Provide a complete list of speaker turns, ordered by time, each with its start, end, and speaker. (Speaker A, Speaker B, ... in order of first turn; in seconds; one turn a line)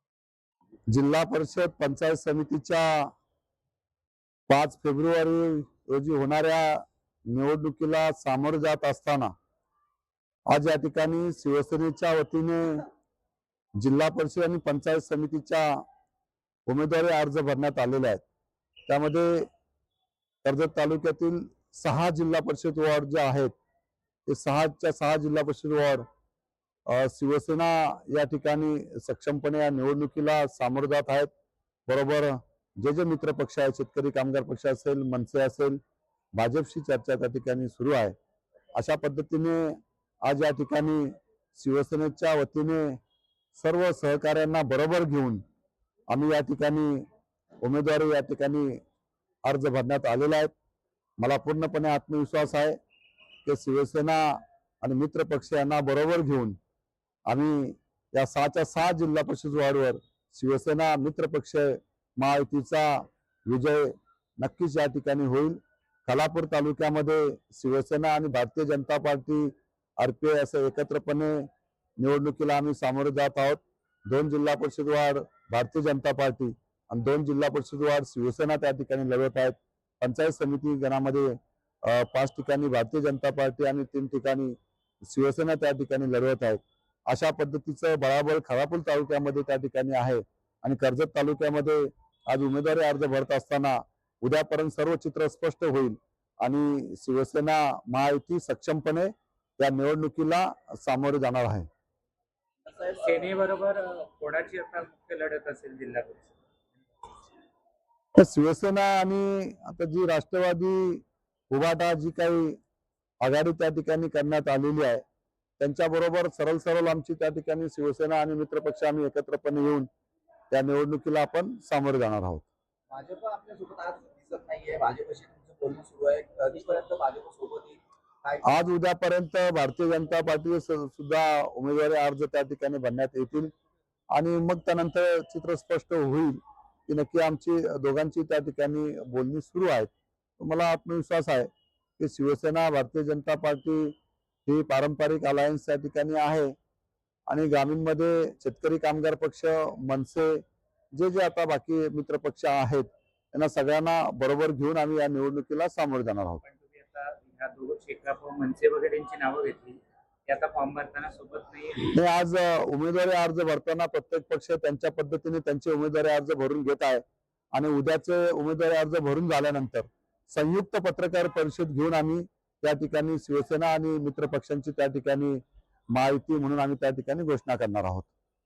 Speaker A: 0.9-3.1
Speaker A: 4.5-9.3
Speaker A: 10.5-12.9
Speaker A: 13.8-15.8
Speaker A: 16.7-18.2
Speaker A: 18.9-19.5
Speaker A: 20.4-23.5
Speaker A: 24.3-26.1
Speaker A: 26.9-31.3
Speaker A: 31.9-35.8
Speaker A: 36.4-38.1
Speaker A: 38.8-43.0
Speaker A: 43.5-45.4
Speaker A: 46.1-47.0
Speaker A: 47.6-48.8
Speaker A: 49.5-50.5
Speaker A: 51.2-52.8
Speaker A: 53.5-56.6
Speaker A: 57.3-71.5
Speaker A: 72.0-101.7
Speaker B: 102.7-103.3
Speaker C: 102.9-106.3
Speaker A: 108.2-112.6
Speaker A: 113.2-115.0
Speaker A: 115.6-119.9
Speaker A: 120.5-122.5
Speaker B: 122.9-128.6
Speaker A: 128.4-133.5
Speaker A: 134.1-143.9
Speaker A: 144.5-146.5
Speaker A: 147.3-150.4
Speaker A: 150.9-156.4
Speaker C: 156.4-161.9
Speaker A: 161.9-167.0
Speaker A: 167.5-175.4
Speaker A: 175.9-178.1